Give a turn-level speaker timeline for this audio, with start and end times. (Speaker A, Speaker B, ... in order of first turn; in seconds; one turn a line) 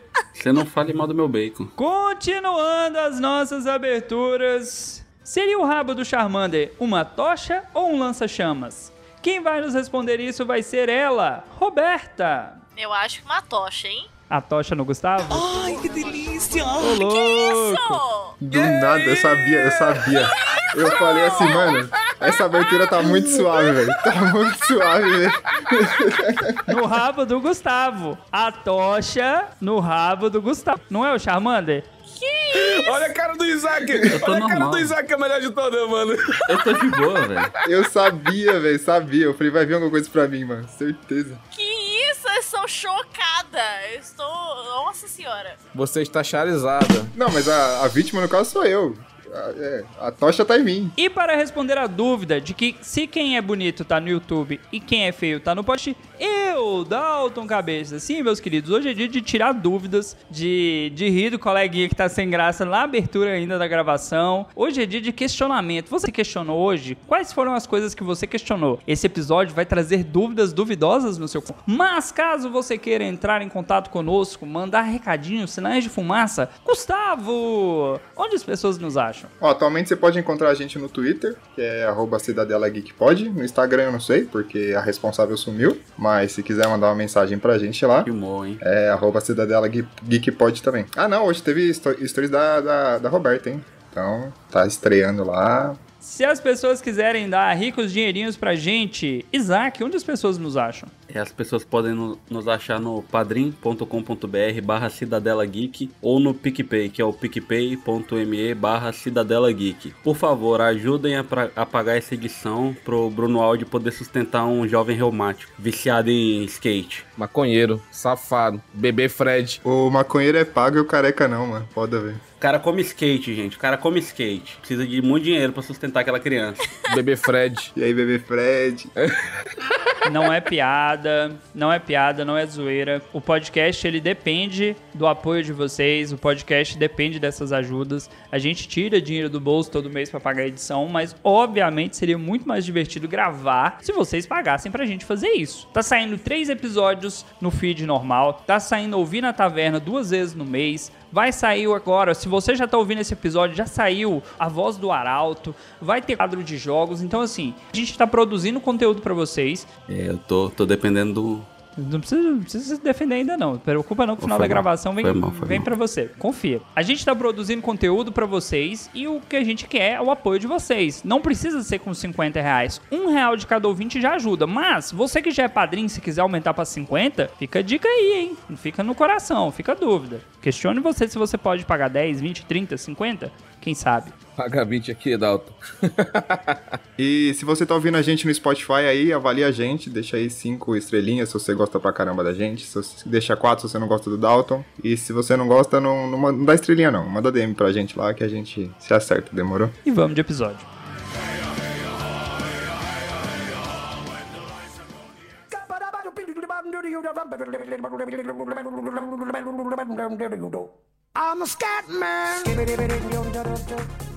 Speaker A: 0.3-1.7
Speaker B: 1.8-12.6
Speaker C: 12.8-14.1
Speaker B: 14.3-18.0
Speaker D: 15.4-16.4
Speaker C: 16.8-18.4
Speaker E: 18.4-26.8
Speaker F: 18.5-20.1
Speaker C: 20.3-23.0
Speaker F: 23.0-23.5
Speaker B: 26.7-31.9
Speaker C: 32.1-33.1
Speaker F: 32.5-36.7
Speaker A: 34.1-35.0
Speaker A: 36.5-37.5
Speaker E: 37.6-41.4
Speaker C: 41.5-45.6
Speaker F: 45.7-47.1
Speaker E: 47.1-50.9
Speaker B: 51.0-79.3
Speaker E: 79.4-88.1
Speaker A: 88.0-88.6
Speaker E: 88.6-95.8
Speaker B: 96.0-100.9
Speaker A: 101.1-117.1
Speaker F: 117.2-119.6
Speaker E: 119.6-122.2
Speaker A: 122.4-126.6
Speaker F: 126.9-127.7
Speaker E: 127.8-128.9
Speaker B: 130.0-159.7
Speaker A: 159.9-161.5
Speaker B: 161.8-184.2
Speaker A: 164.2-165.7
Speaker F: 184.4-186.8
Speaker E: 187.0-199.8
Speaker B: 199.8-200.7
Speaker D: 205.5-213.9